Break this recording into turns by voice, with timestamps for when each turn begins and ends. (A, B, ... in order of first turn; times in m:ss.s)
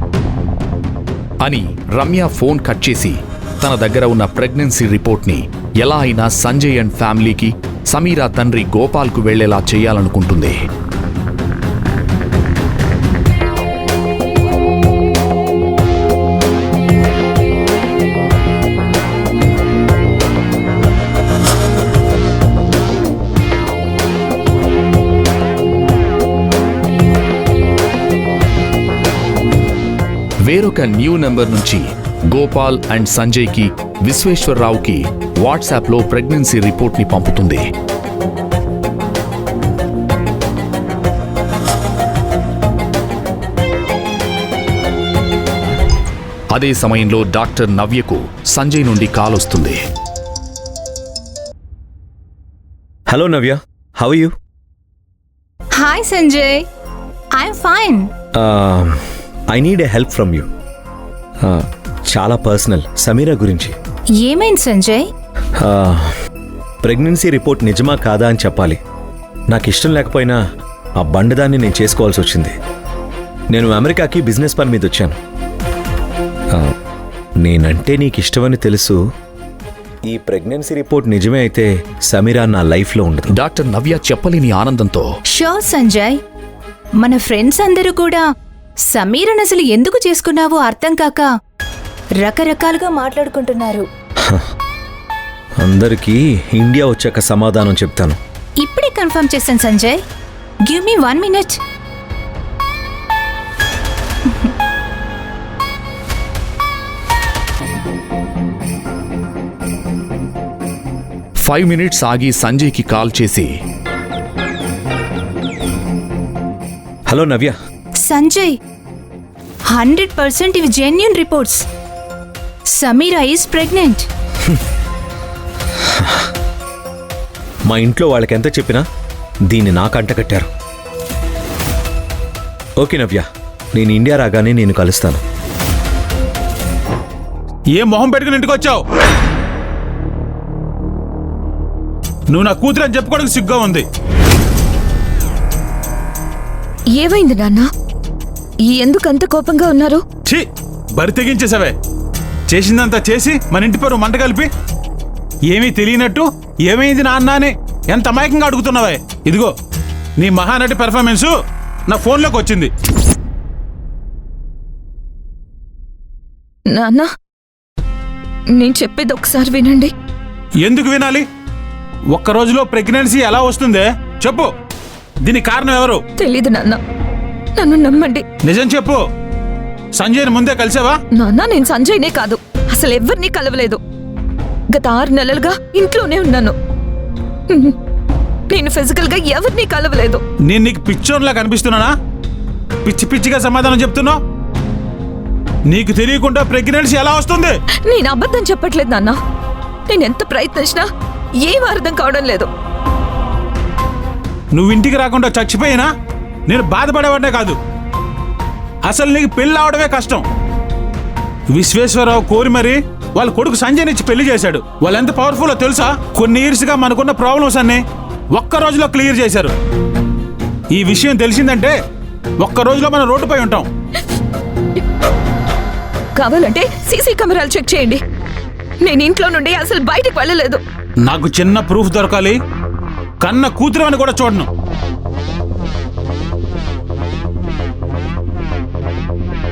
0:01.4-0:10.6 A
0:30.4-0:37.6 A
0:46.5-0:49.8 A
0:53.1-0:54.3 B
0:55.8-0:56.6 C
0:57.4-0:58.0 C
0:58.4-0:59.0 B
0:59.5-1:00.5 B
1:01.4-1:03.7 B
1:04.2-1:05.0 C
1:05.6-1:06.1 B
1:06.8-1:08.8 B
1:09.5-1:10.4 B
1:11.0-1:12.5 B
1:13.5-1:15.2 B
1:17.4-1:19.0 B
1:20.0-1:23.3 B
1:23.3-1:25.1 A
1:25.3-1:26.2 C
1:27.0-1:28.2 C
1:28.9-1:31.3 C
1:32.2-1:33.8 C
1:35.6-1:38.2 B
1:38.6-1:40.0 C
1:40.7-1:41.6 C
1:51.4-1:53.5 A
1:57.1-1:57.6 B
1:58.0-1:58.5 C
1:59.7-2:01.6 C
2:02.7-2:04.0 C
2:07.7-2:08.8 B
2:09.5-2:10.5 B
2:12.8-2:15.2 B
2:17.7-2:18.8 D
2:22.3-2:23.8 D
2:26.9-2:27.7 E
2:28.7-2:30.0 E
2:30.2-2:31.7 D
2:32.5-2:34.5 D
2:35.5-2:39.5 D
2:40.2-2:41.3 D
2:41.9-2:42.7 D
2:46.7-2:47.1 E
2:48.5-2:49.9 E
2:50.6-2:51.3 D
2:52.1-2:54.5 D
2:55.2-2:56.0 D
2:56.2-2:56.8 E
2:57.6-2:58.2 E
2:58.4-2:59.0 D
2:59.9-3:01.0 D
3:01.1-3:03.8 E
3:04.7-3:06.5 E
3:07.5-3:07.7 E
3:08.5-3:10.2 E
3:10.4-3:11.9 D
3:12.8-3:14.2 D
3:15.7-3:17.6 D
3:17.8-3:19.2 E
3:19.9-3:20.9 E
3:21.4-3:22.5 E
3:24.5-3:25.9 D
3:26.5-3:27.6 D
3:28.8-3:30.2 D
3:31.5-3:39.5 D
3:40.7-3:41.7 D
3:42.4-3:43.7 D
3:46.2-3:48.0 E
3:48.8-3:50.6 E
3:51.0-3:52.4 D
3:53.2-3:54.5 D